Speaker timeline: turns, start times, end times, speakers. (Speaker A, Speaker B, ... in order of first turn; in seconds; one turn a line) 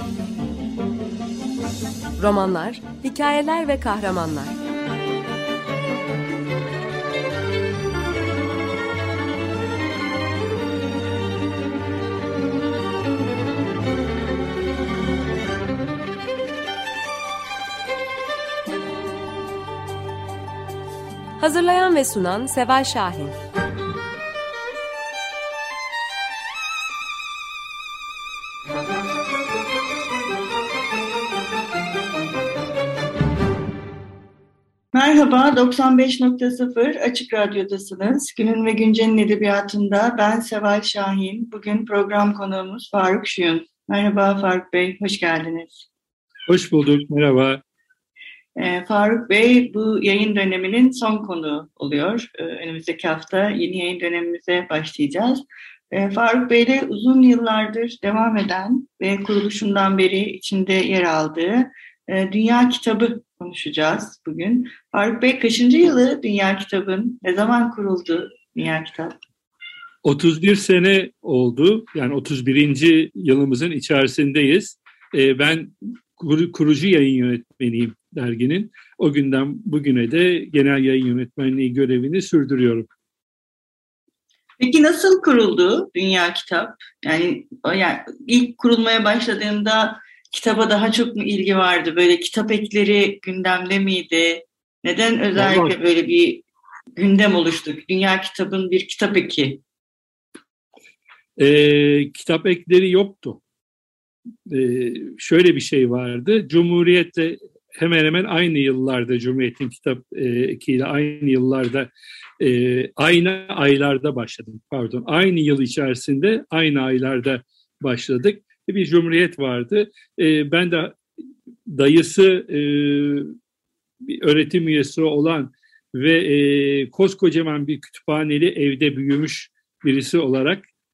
Speaker A: 2.2-4.5
Speaker A: 21.4-23.3
Speaker B: 34.9-45.9
Speaker C: 46.5-47.6
Speaker B: 48.5-69.2
Speaker C: 70.0-82.9
Speaker B: 84.6-99.6
Speaker C: 95.3-95.8
Speaker C: 101.4-103.4
Speaker C: 104.5-121.0
Speaker C: 121.7-123.2
Speaker C: 124.0-130.6